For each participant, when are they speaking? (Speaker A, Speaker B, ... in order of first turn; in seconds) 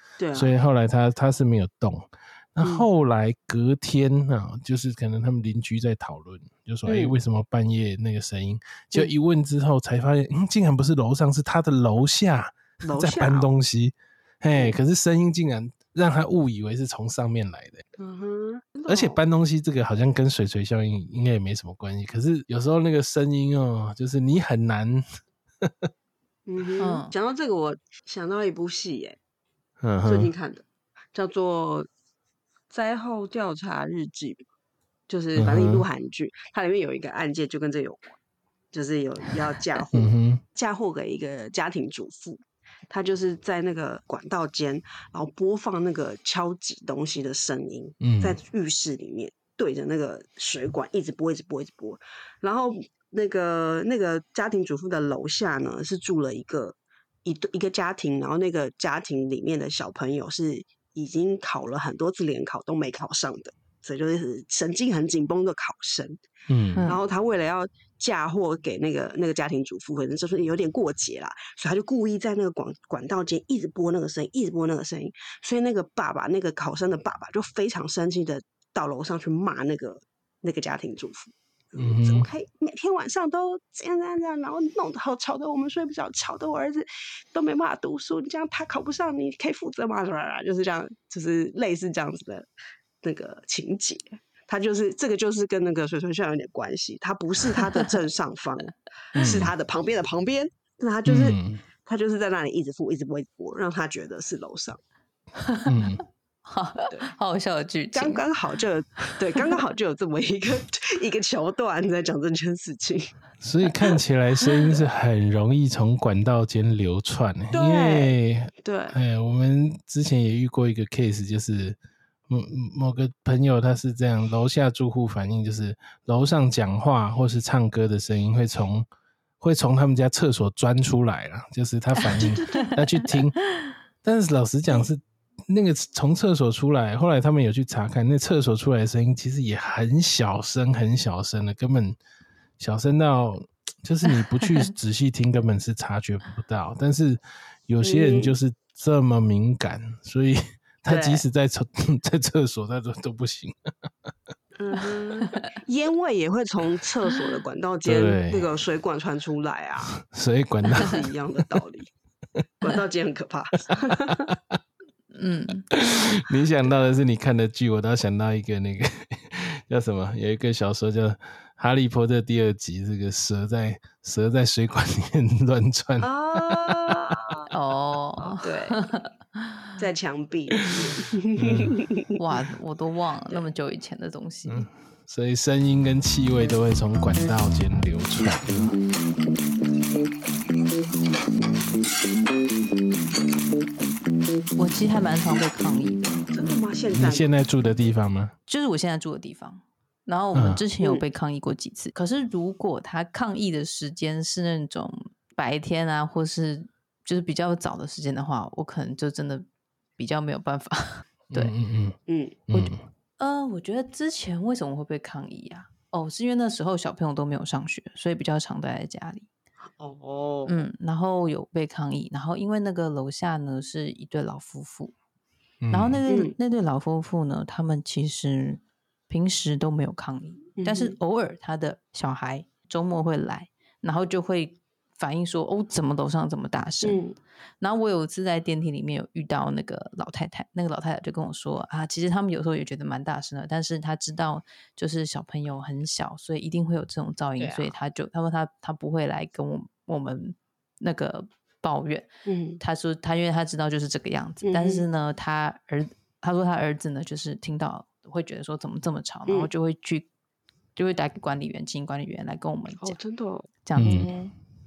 Speaker A: 0.2-0.5, 6.9-7.2, 12.8-13.5, 18.0-19.2, 26.4-29.2, 30.0-31.9, 32.7-34.4, 35.1-38.1, 38.7-66.2, 66.8-92.5, 93.0-104.8, 107.9-113.1, 113.8-114.8, 117.5-119.0, 132.1-132.8, 147.8-148.3, 150.9-151.2, 154.6-160.0, 160.7-161.9, 162.6-164.3, 176.0-177.5, 178.2-178.9, 179.8-182.1, 196.3-197.3, 212.1-212.4, 219.7-220.6, 226.1-226.3, 230.6-230.9, 236.8-237.2, 247.4-247.7, 252.2-252.6, 254.4-254.8, 262.8-264.2
Speaker B: 0.3-17.8, 18.9-25.0, 25.6-25.9, 29.8-30.3, 35.4-35.9, 39.9-40.4, 48.0-48.4, 66.5-66.8, 81.8-82.3, 99.2-99.5, 101.0-101.6, 105.7-106.0, 113.4-121.8, 122.3-128.9, 129.4-133.4, 134.0-142.0, 142.6-153.6, 157.8-158.5, 159.9-161.6, 163.7-164.6, 165.7-177.3, 181.3-181.8, 184.4-188.8, 196.9-198.3, 200.3-200.6, 211.3-212.0, 212.5-212.8, 225.6-226.0, 263.8-264.1
Speaker C: 26.8-27.1, 66.7-67.0, 97.5-97.9, 105.4-108.2, 132.0-132.7, 155.2-155.5, 165.1-165.7, 177.5-179.8, 182.2-184.7, 194.6-196.2, 198.5-209.4, 210.0-211.5, 212.5-219.3, 220.4-224.9, 225.7-237.0, 237.6-252.1, 252.6-260.1, 260.8-263.0, 263.6-264.3